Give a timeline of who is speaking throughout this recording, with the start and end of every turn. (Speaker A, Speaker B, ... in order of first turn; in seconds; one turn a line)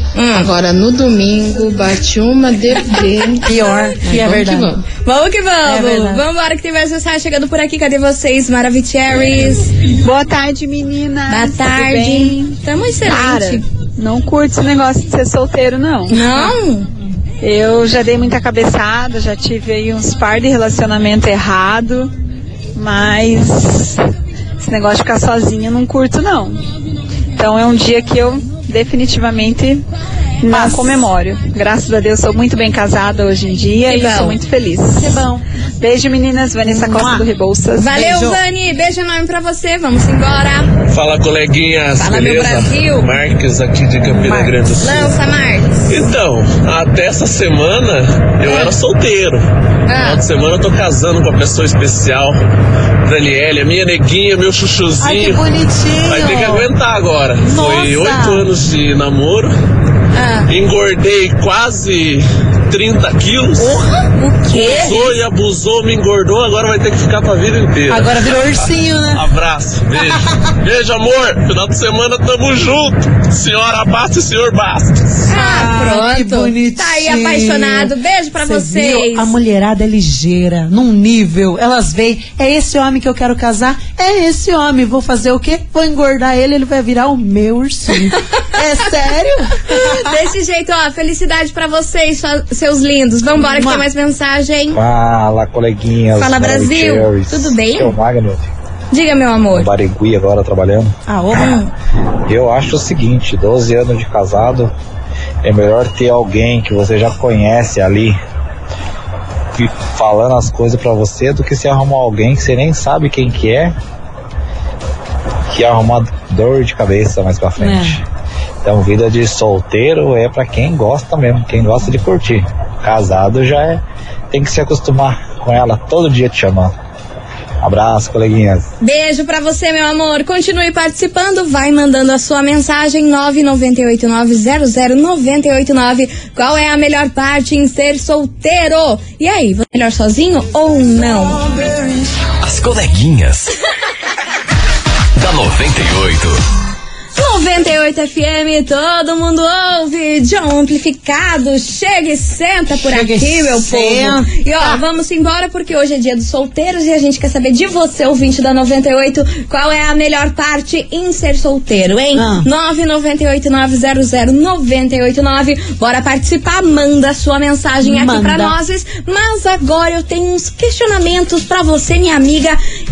Speaker A: 0.1-0.5
Speaker B: 0.3-4.8
Speaker C: 3.4-4.8
Speaker A: 5.0-9.7
Speaker C: 5.6-6.2
Speaker D: 10.0-16.5
Speaker A: 11.3-13.6
Speaker A: 16.1-16.9
Speaker D: 17.4-22.1
Speaker D: 22.7-24.0
Speaker D: 24.6-26.6
Speaker D: 27.4-29.9
Speaker D: 30.4-35.2
Speaker C: 30.5-31.1
Speaker A: 33.8-34.4
Speaker C: 35.0-35.4
Speaker D: 35.8-38.1
Speaker C: 36.6-37.3
Speaker A: 37.8-40.7
Speaker C: 37.9-38.4
Speaker E: 40.9-45.1
Speaker A: 42.0-43.1
Speaker C: 44.1-44.5
Speaker A: 44.8-46.0
Speaker E: 45.9-52.4
Speaker A: 49.9-50.2
Speaker E: 53.0-55.4
Speaker C: 55.0-56.7
Speaker E: 56.1-59.5
Speaker C: 57.4-58.5
Speaker A: 60.1-60.5
Speaker E: 60.5-63.8
Speaker C: 63.6-64.0
Speaker A: 64.1-65.1
Speaker E: 64.6-75.1
Speaker C: 67.9-69.2
Speaker C: 69.9-70.5
Speaker C: 75.3-90.2
Speaker A: 75.3-79.3
Speaker A: 89.7-94.8
Speaker C: 93.4-93.8
Speaker F: 94.7-98.5
Speaker A: 96.2-97.9
Speaker A: 98.9-99.7
Speaker F: 99.5-100.9
Speaker C: 101.1-101.6
Speaker A: 101.3-101.7
Speaker F: 102.3-104.7
Speaker F: 105.4-108.2
Speaker F: 109.5-113.7
Speaker F: 115.5-118.0
Speaker C: 117.6-118.0
Speaker F: 118.6-126.7
Speaker F: 127.6-128.7
Speaker A: 128.8-141.4
Speaker G: 142.4-143.5
Speaker G: 145.2-146.4
Speaker A: 147.2-172.6
Speaker C: 152.8-154.8
Speaker C: 162.1-162.5
Speaker C: 167.8-168.6